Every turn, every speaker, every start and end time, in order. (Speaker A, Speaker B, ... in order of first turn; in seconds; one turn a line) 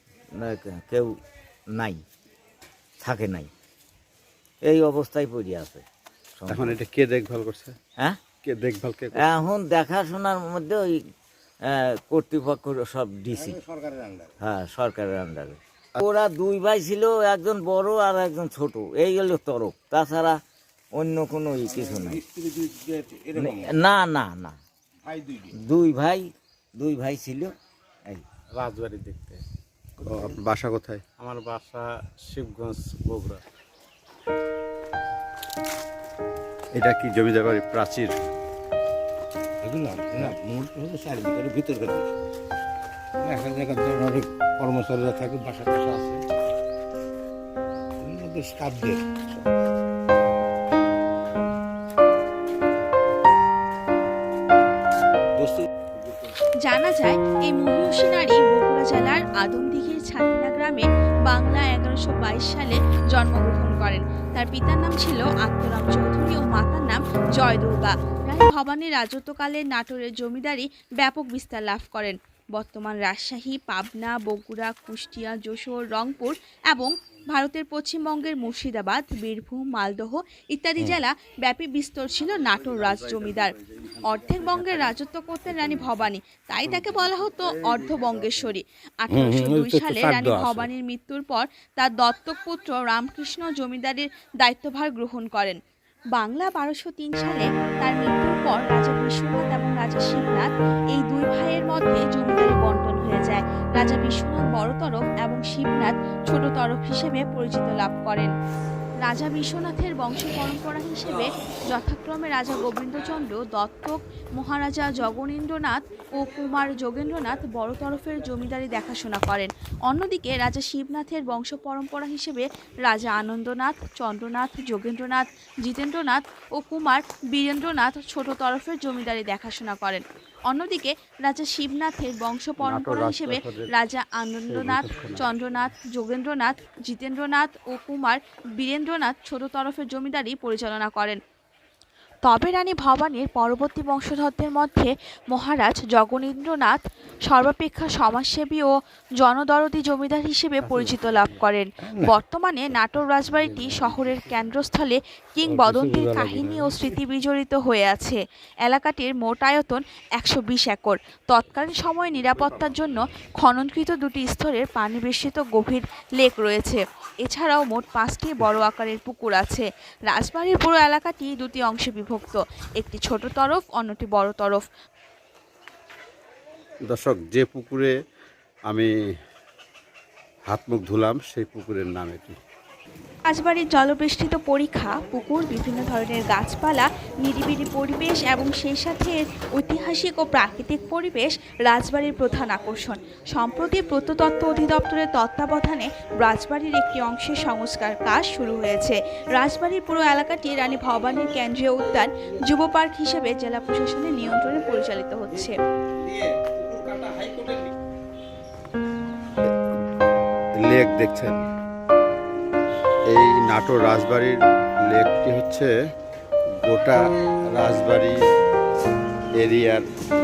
Speaker A: 0.4-1.1
Speaker A: 1.8-2.0
Speaker A: 3.0-3.5
Speaker A: 4.6-5.8
Speaker A: 6.4-6.8
Speaker B: 6.5-7.7
Speaker B: 8.4-9.2
Speaker A: 9.2-11.0
Speaker A: 11.6-13.6
Speaker C: 13.3-14.3
Speaker A: 14.4-20.4
Speaker A: 20.9-22.2
Speaker C: 21.6-23.8
Speaker A: 23.4-24.6
Speaker C: 25.0-25.6
Speaker A: 25.6-27.5
Speaker C: 28.6-29.4
Speaker D: 28.9-29.3
Speaker C: 30.0-30.4
Speaker B: 30.1-31.1
Speaker D: 31.5-33.3
Speaker C: 32.1-32.9
Speaker B: 36.7-38.1
Speaker C: 39.6-42.1
Speaker C: 43.2-46.2
Speaker C: 48.0-49.5
Speaker C: 55.4-55.7
Speaker E: 56.6-95.6
Speaker C: 89.1-90.7
Speaker E: 96.1-108.3
Speaker E: 109.0-141.2
Speaker B: 132.6-133.7
Speaker B: 134.5-135.3
Speaker E: 142.2-174.6
Speaker C: 151.8-152.1
Speaker C: 155.4-156.8
Speaker B: 176.9-177.9
Speaker B: 180.5-182.3
Speaker E: 183.3-205.6
Speaker C: 206.0-207.7
Speaker B: 210.6-211.4
Speaker B: 213.1-214.4
Speaker B: 214.9-215.7
Speaker B: 216.6-217.0
Speaker B: 217.6-218.2
Speaker B: 219.4-219.9